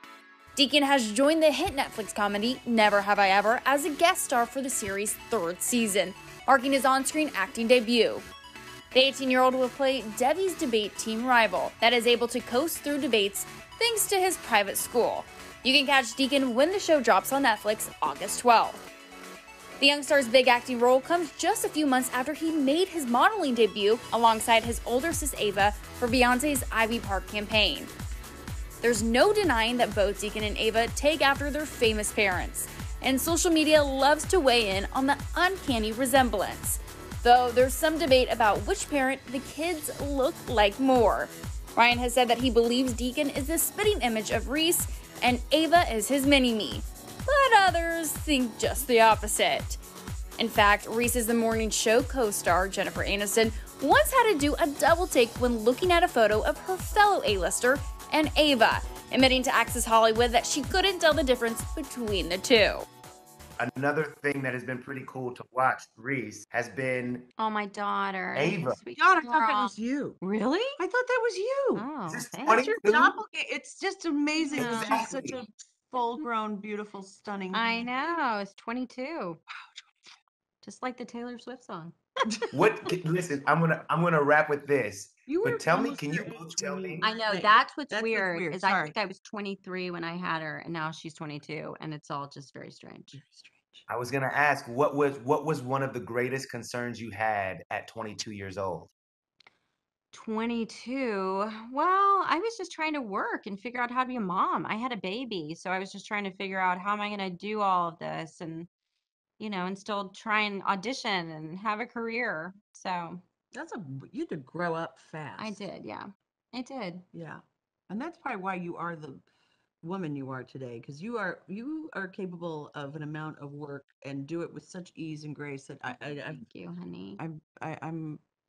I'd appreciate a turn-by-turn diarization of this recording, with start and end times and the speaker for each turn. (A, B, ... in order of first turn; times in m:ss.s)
0:00.6-0:08.3 A
0:08.9-0:18.8 A
0:19.8-0:27.9 A
0:28.8-0:49.8 A
0:50.4-1:02.9 A
1:03.6-1:07.3 B
1:07.4-1:10.8 C
1:08.4-1:08.8 B
1:08.9-1:10.2 D
1:10.8-1:11.9 D
1:11.8-1:12.6 C
1:12.1-1:13.2 B
1:12.5-1:17.9 D
1:14.4-1:15.2 C
1:14.6-1:15.4 B
1:17.5-1:19.4 C
1:20.6-1:22.0 C
1:22.5-1:27.1 B
1:25.3-1:29.0 D
1:27.0-1:33.2 C
1:33.1-1:33.9 D
1:33.9-1:38.9 B
1:40.1-1:48.7 C
1:49.4-1:53.2 C
1:53.5-1:55.7 D
1:55.4-1:57.1 C
1:57.1-1:59.2 D
1:59.8-2:06.5 D
2:05.9-2:07.2 C
2:07.2-2:08.2 D